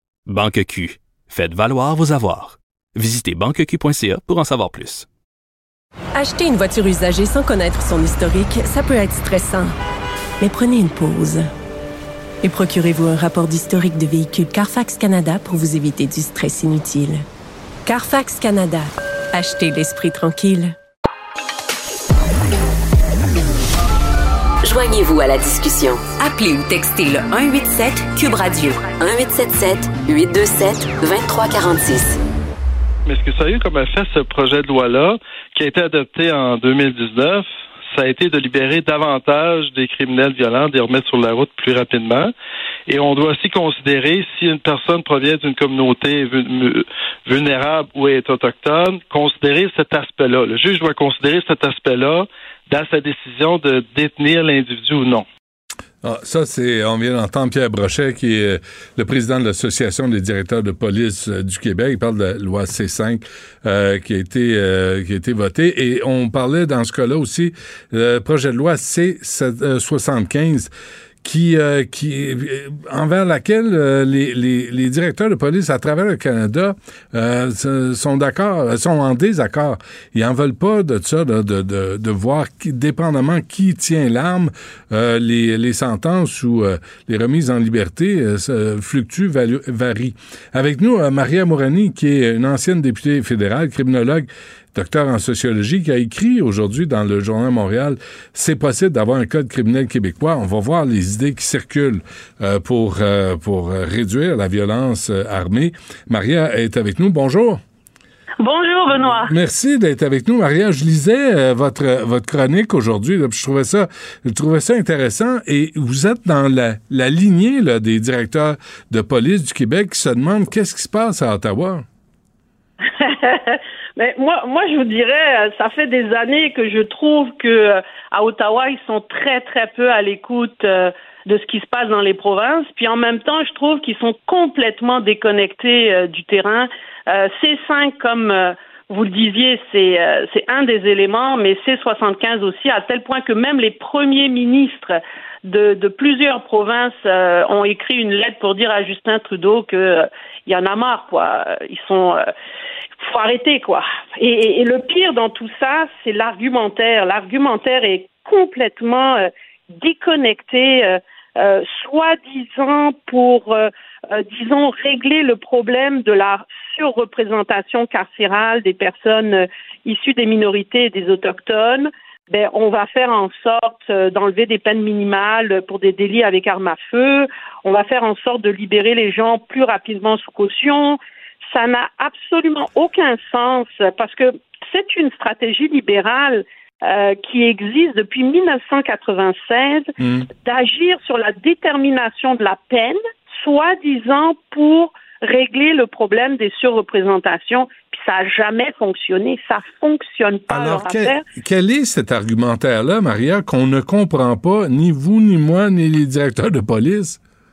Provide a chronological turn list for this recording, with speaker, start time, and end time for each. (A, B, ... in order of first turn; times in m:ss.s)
0:00.3-0:05.0 A
0:06.1-0:09.7 B
0:10.4-0:11.5 B
0:12.4-0:17.2 B
0:17.8-0:20.7 B
0:24.6-0:32.2 C
0:33.0-0:42.3 D
0:42.9-0:55.2 D
0:56.0-1:10.7 E
1:11.2-1:47.6 E
1:48.4-1:49.3 F
1:49.1-2:01.8 E
2:03.0-2:32.2 F
2:33.0-3:01.0 F
3:01.5-3:21.2 F
3:10.0-3:10.3 E
3:20.5-3:27.2 E